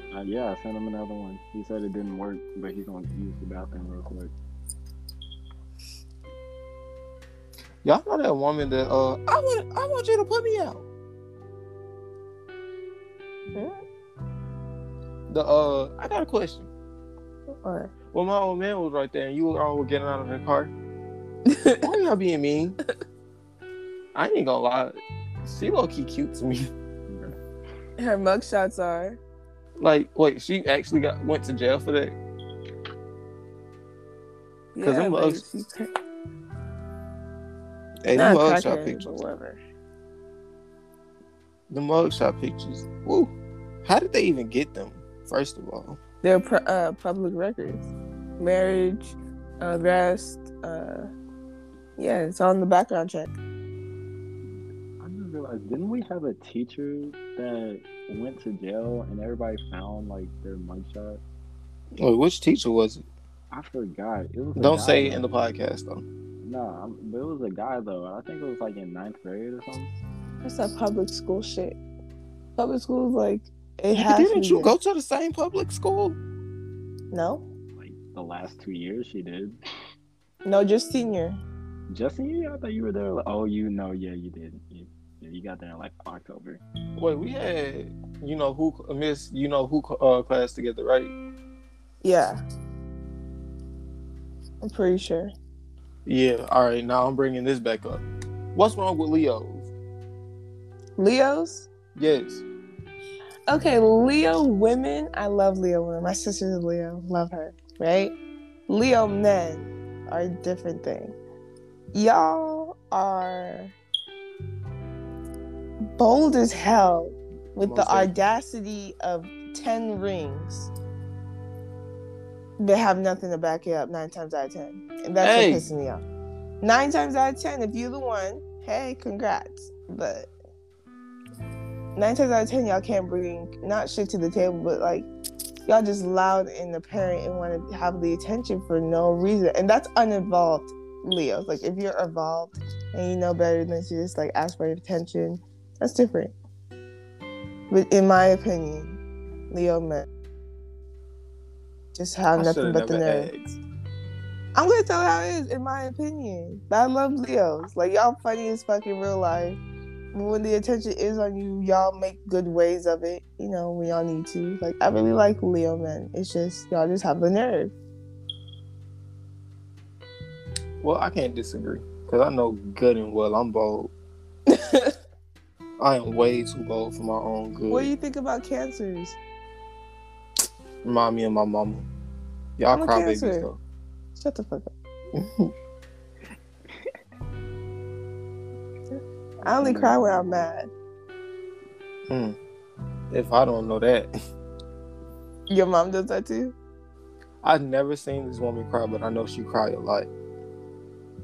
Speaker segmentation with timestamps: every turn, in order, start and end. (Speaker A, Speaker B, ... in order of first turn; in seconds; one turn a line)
Speaker A: 0.1-4.3
Speaker B: 7.8-10.8
Speaker B: 15.3-16.7
Speaker C: 17.6-17.9
Speaker B: 18.1-20.7
Speaker C: 21.5-21.8
Speaker B: 21.8-22.8
Speaker B: 24.1-26.7
Speaker A: 27.1-27.4
Speaker C: 28.0-29.2
Speaker B: 29.8-32.2
Speaker C: 34.8-35.9
Speaker B: 34.8-35.4
Speaker B: 38.0-39.1
Speaker C: 38.1-39.6
Speaker B: 41.7-43.3
Speaker B: 43.9-46.0
Speaker C: 46.2-47.9
Speaker C: 48.4-51.1
Speaker C: 52.0-53.4
Speaker A: 55.0-61.2
Speaker B: 62.0-63.0
Speaker A: 63.5-65.3
Speaker B: 64.6-66.0
Speaker A: 66.4-69.9
Speaker C: 70.4-71.8
Speaker C: 72.6-74.7
Speaker B: 73.9-76.2
Speaker C: 77.1-77.5
Speaker A: 77.8-79.6
Speaker C: 80.5-81.4
Speaker A: 81.9-86.6
Speaker B: 87.0-91.1
Speaker C: 92.0-92.4
Speaker C: 94.6-95.3
Speaker B: 96.1-98.0
Speaker B: 98.5-99.7
Speaker C: 101.0-101.7
Speaker B: 102.0-102.4
Speaker C: 103.5-108.2
Speaker C: 108.7-111.2
Speaker C: 111.9-113.7
Speaker C: 116.0-120.7
Speaker B: 117.6-118.2
Speaker C: 122.6-126.0
Speaker B: 125.2-125.7
Speaker C: 126.6-130.3
Speaker C: 132.0-135.1
Speaker C: 135.7-146.3
Speaker C: 147.7-150.1
Speaker C: 151.9-153.3
Speaker B: 152.3-153.6
Speaker C: 154.6-159.6
Speaker C: 160.1-167.7
Speaker B: 170.8-173.9
Speaker C: 174.5-175.0
Speaker B: 175.8-177.9
Speaker C: 177.7-179.2
Speaker B: 180.8-181.9
Speaker B: 182.6-183.6
Speaker C: 182.7-183.5
Speaker C: 184.2-184.7
Speaker B: 185.2-185.5
Speaker A: 189.4-190.5
Speaker C: 189.4-190.7
Speaker B: 192.1-192.4
Speaker B: 193.1-194.1
Speaker C: 195.5-196.6
Speaker B: 197.4-200.1